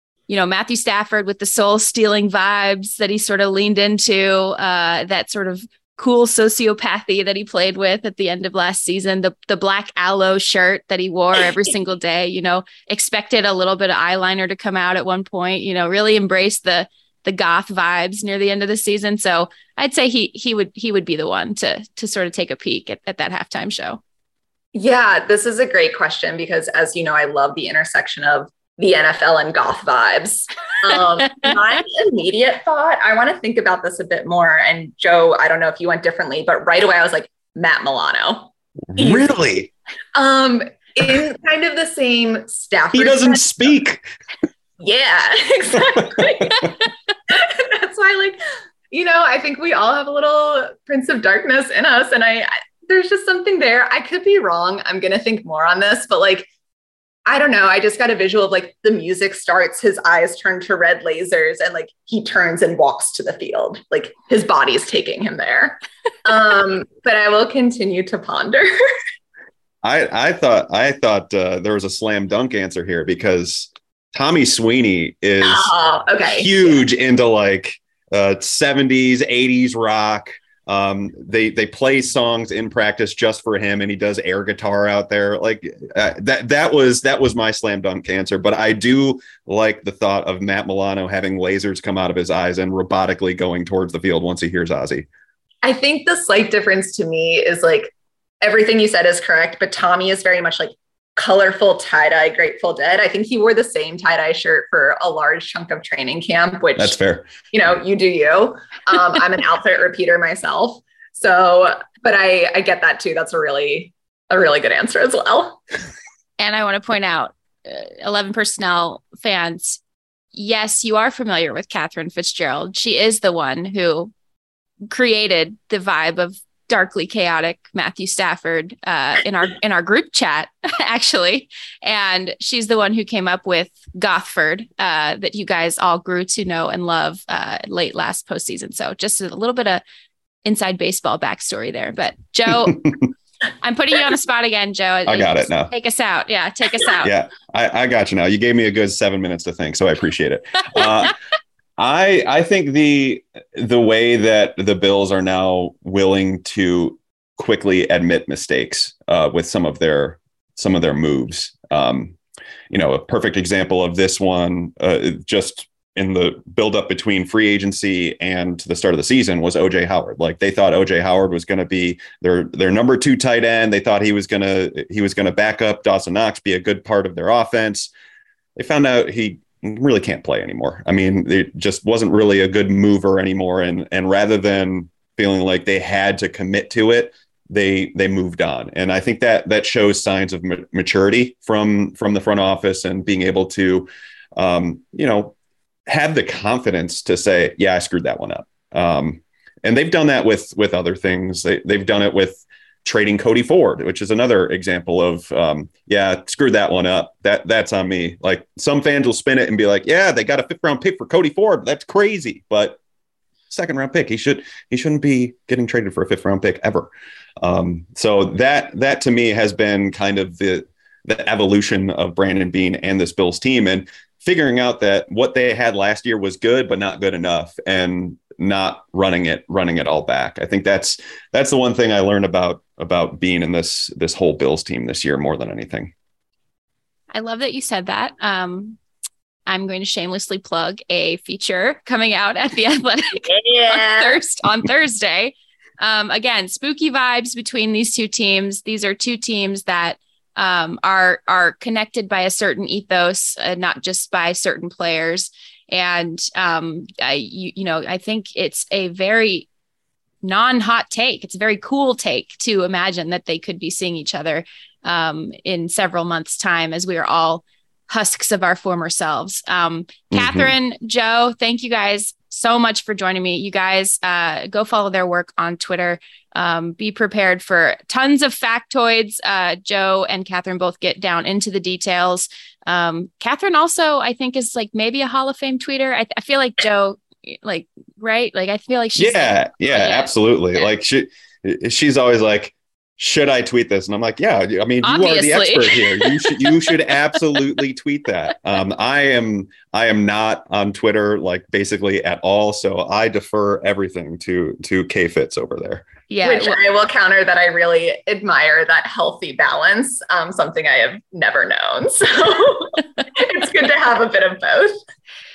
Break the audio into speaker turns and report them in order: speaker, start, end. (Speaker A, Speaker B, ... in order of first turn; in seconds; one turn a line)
Speaker A: 0.3-24.0
Speaker B: 24.7-39.3
Speaker C: 38.9-39.7
Speaker B: 40.1-43.8
Speaker C: 42.9-44.1
Speaker B: 44.8-46.8
Speaker C: 46.0-46.7
Speaker B: 47.3-48.4
Speaker B: 48.9-56.5
Speaker B: 57.3-68.7
Speaker C: 69.8-75.7
Speaker B: 75.4-76.8
Speaker C: 76.3-95.1
Speaker B: 95.6-107.0
Speaker C: 106.8-107.3
Speaker B: 107.5-115.6
Speaker A: 116.4-119.8
Speaker A: 120.3-124.1
Speaker A: 124.9-139.8
Speaker A: 140.4-142.9
Speaker C: 142.7-143.0
Speaker A: 143.6-147.1
Speaker C: 145.1-145.7
Speaker C: 147.0-151.1
Speaker C: 151.8-162.2
Speaker C: 162.7-177.9
Speaker C: 178.6-195.3
Speaker C: 195.9-212.8
Speaker C: 213.5-235.9
Speaker A: 237.1-238.8
Speaker A: 239.5-259.5
Speaker B: 243.2-244.2
Speaker A: 260.2-290.1
Speaker C: 270.1-270.5
Speaker C: 289.0-305.9
Speaker A: 294.8-296.7
Speaker A: 306.1-306.6
Speaker B: 306.2-314.8